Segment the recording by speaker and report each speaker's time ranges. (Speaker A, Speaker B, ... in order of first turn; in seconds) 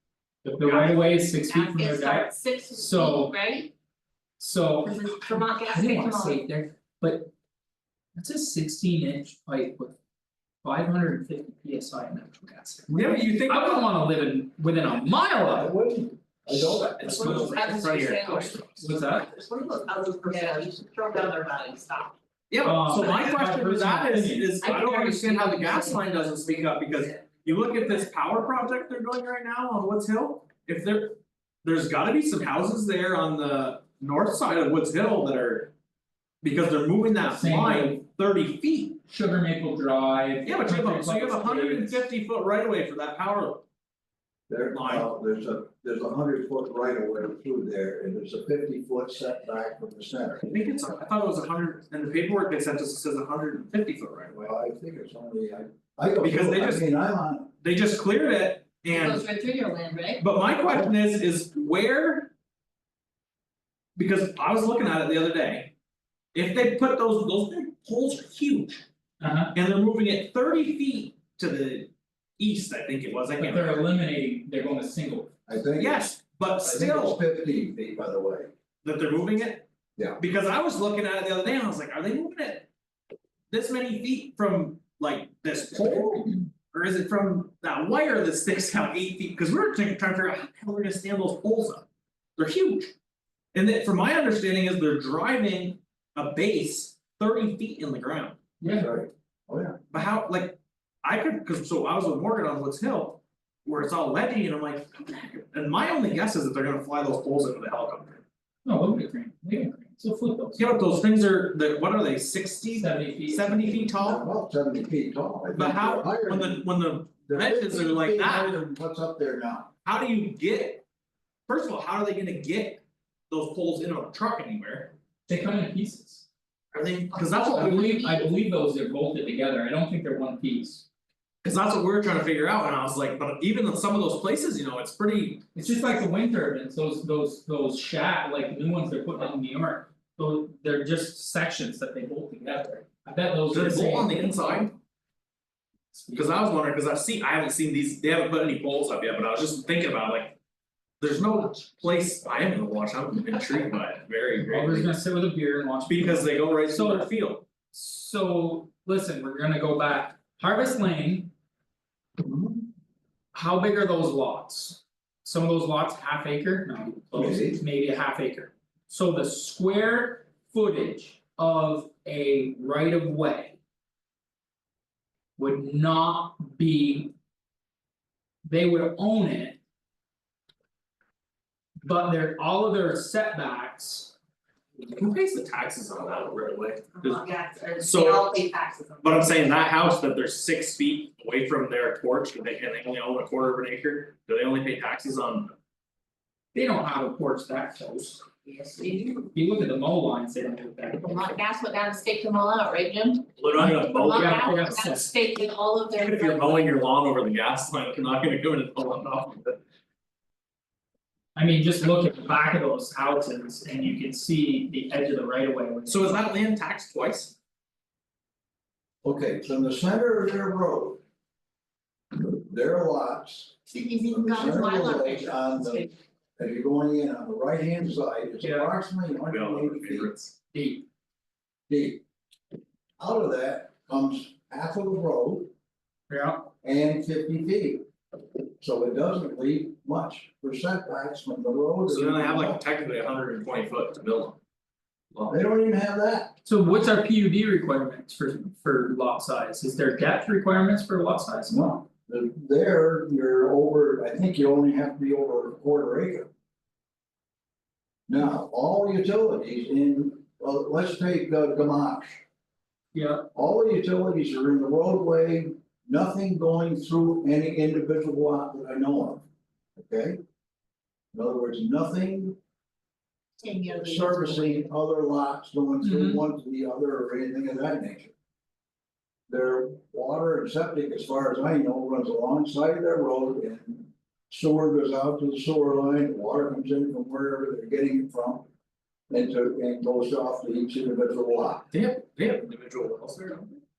Speaker A: 0.4-3.3, 4.4-7.3, 8.1-9.9, 10.6-15.8, 17.1-17.5, 18.8-19.3, 22.6-24.5, 37.2-38.0, 39.1-42.0, 69.2-69.5, 73.4-75.4, 98.6-98.9, 108.6-110.8, 112.8-113.9, 125.3-126.3, 127.5-130.9, 135.5-144.3, 145.9-146.3, 154.4-157.1, 157.7-161.3, 163.3-173.6, 175.4-177.1, 178.4-179.6, 181.8-184.1, 196.5-198.2, 199.3-201.1, 203.6-205.0, 211.3-216.4, 228.4-228.7, 230.5-230.8, 236.1-236.5, 246.4-251.7, 262.9-263.3, 275.8-276.2
Speaker B: 0.6-0.9, 12.9-13.9, 16.9-18.9, 22.5-35.7, 36.4-39.0, 40.4-43.6, 44.7-45.1, 50.4-54.5, 56.2-56.9, 57.6-59.3, 60.2-62.3, 64.0-65.7, 66.3-68.8, 69.5-73.8, 75.8-77.2, 78.8-82.7, 83.5-91.8, 92.4-92.9, 93.5-98.4, 99.9-108.2, 110.6-114.2, 115.5-118.6, 119.8-120.8, 121.5-124.9, 126.7-128.1, 131.4-135.5, 143.5-144.7, 146.1-150.4, 151.0-154.9, 155.8-157.4, 184.9-187.2, 187.8-188.3, 189.0-195.5, 203.4-205.1, 206.0-209.6, 215.9-217.3, 229.3-230.3, 241.9-244.4, 245.1-245.4, 291.7-293.6
Speaker C: 1.5-3.7, 4.8-6.4, 17.0-18.6, 19.3-22.1, 24.6-28.0, 58.9-60.2, 127.1-128.3, 186.9-189.5, 198.4-199.3, 201.0-206.8, 223.7-225.9, 273.4-274.6
Speaker D: 15.5-17.5, 44.5-50.5, 54.3-57.5, 75.5-78.5, 85.8-86.4, 98.7-99.9, 113.9-116.7, 117.3-119.7, 162.2-162.7, 167.1-167.6, 219.0-221.0, 222.1-230.1, 231.7-232.0, 233.0-235.5, 236.6-237.8, 238.6-242.6, 245.3-246.3, 251.5-256.3, 258.1-262.2, 263.3-269.2, 269.8-270.2, 271.1-272.4, 273.7-278.1, 279.3-288.4, 289.1-291.7